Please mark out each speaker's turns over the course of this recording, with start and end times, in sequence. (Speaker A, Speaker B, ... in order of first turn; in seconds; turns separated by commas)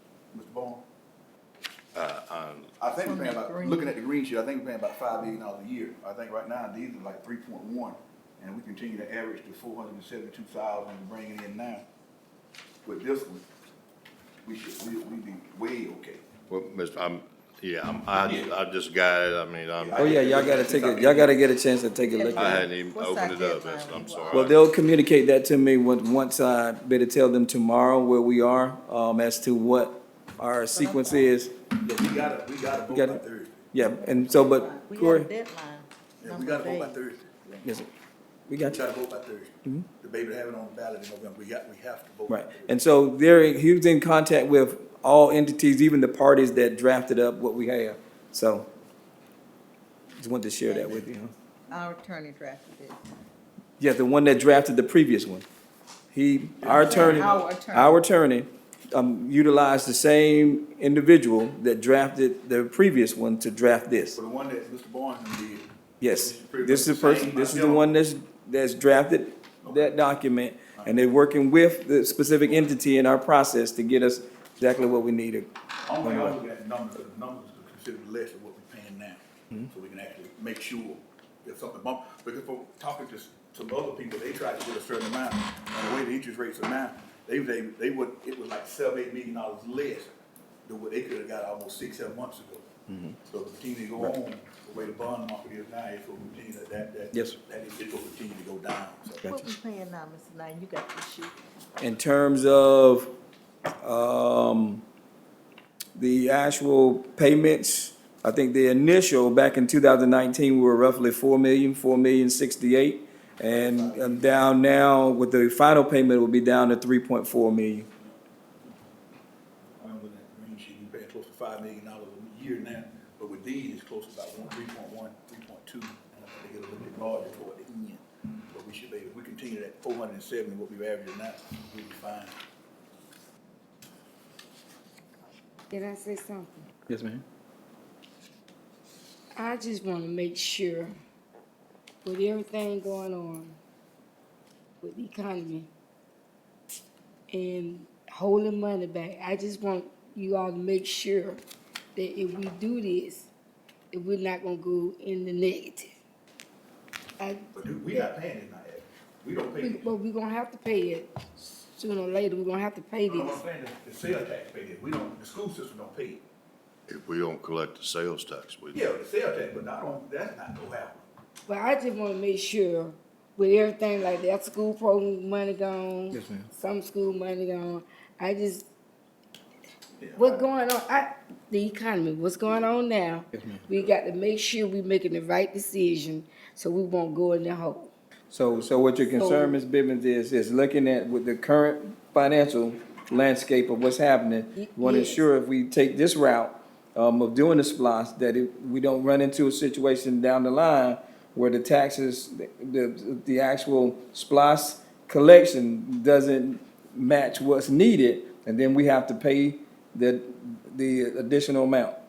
Speaker A: 0.3-0.8, Speaker B: 1.9-2.8, Speaker A: 2.8-11.8, Speaker C: 3.0-3.9, Speaker A: 12.8-13.4, Speaker A: 14.4-16.3, Speaker B: 16.5-20.4, Speaker A: 18.1-18.5, Speaker A: 19.8-21.4, Speaker D: 20.0-22.6, Speaker C: 22.1-24.5, Speaker B: 22.3-24.6, Speaker D: 24.3-31.5, Speaker C: 30.7-31.3, Speaker A: 31.8-33.7, Speaker D: 32.9-35.3, Speaker C: 33.9-37.6, Speaker A: 36.2-37.2, Speaker D: 37.6-37.9, Speaker D: 38.5-38.8, Speaker A: 38.7-42.8, Speaker D: 42.3-48.7, Speaker D: 50.2-51.3, Speaker C: 50.7-51.0, Speaker C: 51.7-53.0, Speaker D: 53.8-55.5, Speaker D: 56.1-64.2, Speaker A: 56.6-57.5, Speaker C: 56.7-58.1, Speaker A: 64.2-67.9, Speaker D: 66.0-75.5, Speaker A: 69.6-70.0, Speaker A: 75.8-90.1, Speaker D: 76.0-76.4, Speaker A: 90.7-92.7, Speaker D: 92.9-93.2, Speaker A: 93.3-99.3, Speaker C: 99.2-101.4, Speaker D: 101.8-103.1, Speaker D: 103.8-104.8, Speaker D: 106.0-117.9, Speaker A: 113.4-114.5, Speaker A: 119.8-132.4, Speaker E: 135.7-136.7, Speaker D: 136.9-137.2, Speaker E: 139.3-141.0, Speaker E: 142.0-143.6, Speaker E: 144.8-145.7, Speaker E: 147.3-151.4, Speaker E: 151.9-153.3, Speaker E: 153.9-155.9, Speaker E: 157.2-158.1, Speaker A: 157.6-159.9, Speaker E: 159.6-163.4, Speaker A: 163.1-166.2, Speaker B: 166.9-168.9, Speaker A: 168.7-171.1, Speaker E: 171.5-178.7, Speaker D: 176.1-176.5, Speaker A: 180.0-180.5, Speaker E: 180.2-187.9, Speaker D: 183.3-183.7, Speaker D: 188.3-212.0, Speaker A: 188.4-189.1, Speaker E: 189.1-189.6, Speaker E: 194.6-195.3